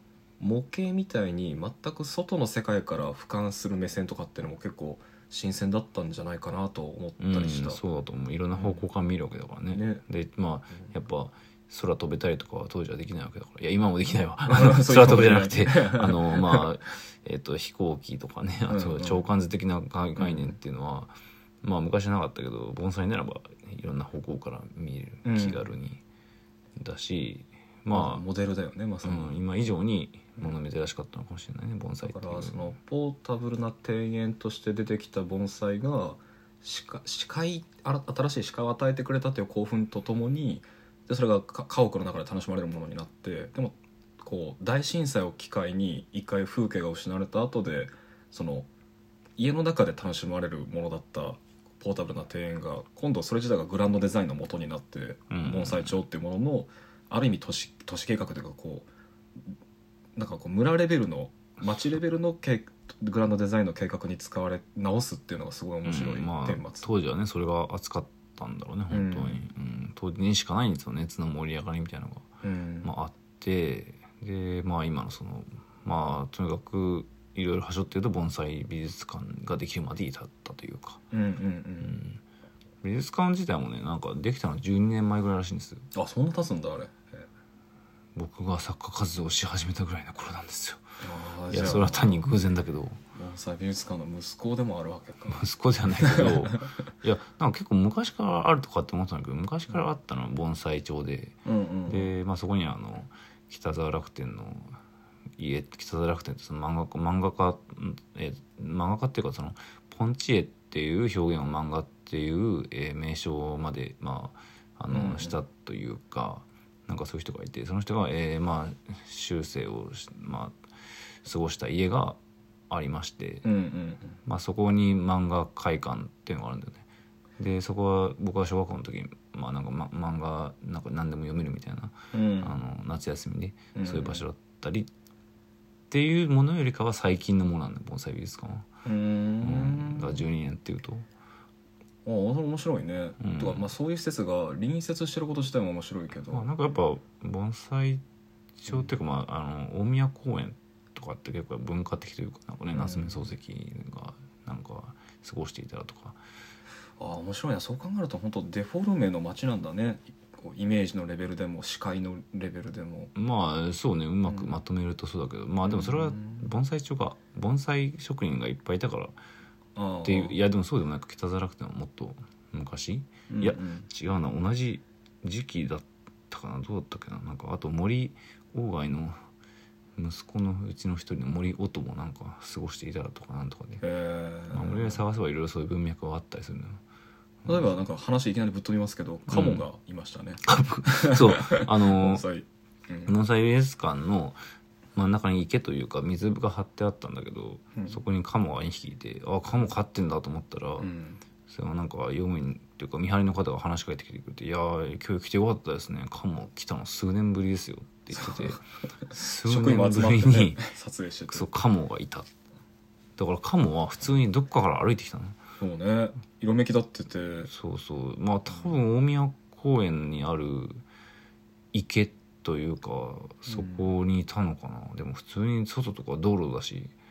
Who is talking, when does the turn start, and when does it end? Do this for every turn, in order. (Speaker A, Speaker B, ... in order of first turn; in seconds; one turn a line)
Speaker A: 0.4-7.8
Speaker B: 7.2-26.0
Speaker A: 8.5-8.8
Speaker A: 9.7-10.0
Speaker A: 14.5-16.7
Speaker A: 18.7-19.2
Speaker A: 20.2-20.6
Speaker A: 25.2-25.6
Speaker B: 26.8-28.2
Speaker A: 27.9-29.3
Speaker B: 29.0-32.7
Speaker A: 32.0-48.7
Speaker A: 49.4-58.9
Speaker B: 55.3-56.0
Speaker A: 60.1-66.9
Speaker B: 65.8-72.2
Speaker A: 68.9-69.4
Speaker A: 72.4-72.9
Speaker B: 72.8-81.0
Speaker A: 81.1-82.0
Speaker B: 81.8-82.2
Speaker B: 82.8-85.8
Speaker A: 85.9-87.2
Speaker B: 88.1-90.8
Speaker A: 91.0-92.2
Speaker B: 91.5-93.0
Speaker A: 93.1-95.4
Speaker B: 95.3-104.8
Speaker A: 96.0-96.6
Speaker A: 101.4-102.1
Speaker B: 105.3-120.6
Speaker A: 114.9-115.4
Speaker B: 121.2-122.2
Speaker B: 122.7-123.5
Speaker A: 123.4-124.2
Speaker B: 124.2-126.8
Speaker B: 127.4-134.9
Speaker A: 132.1-132.6
Speaker A: 133.7-134.2
Speaker B: 135.9-138.7
Speaker A: 138.8-140.2
Speaker B: 139.4-141.1
Speaker A: 142.0-146.5
Speaker B: 143.2-143.7
Speaker B: 146.3-148.0
Speaker B: 148.6-156.2
Speaker A: 152.7-153.3
Speaker A: 157.0-163.1
Speaker B: 163.1-169.2
Speaker A: 165.7-166.5
Speaker A: 169.8-170.4
Speaker B: 170.0-179.2
Speaker A: 173.3-173.9
Speaker B: 179.9-183.8
Speaker A: 183.8-185.0
Speaker B: 184.5-186.8
Speaker B: 187.4-187.7
Speaker A: 187.4-193.1
Speaker B: 189.3-189.6
Speaker B: 190.4-192.2
Speaker B: 193.1-194.4
Speaker B: 194.9-200.9
Speaker A: 200.8-201.2
Speaker B: 201.5-210.6
Speaker A: 208.2-208.6
Speaker A: 209.4-211.5
Speaker B: 211.3-212.3
Speaker B: 213.2-215.4
Speaker A: 215.6-217.5
Speaker B: 217.4-220.8
Speaker B: 221.7-226.9
Speaker A: 223.5-223.9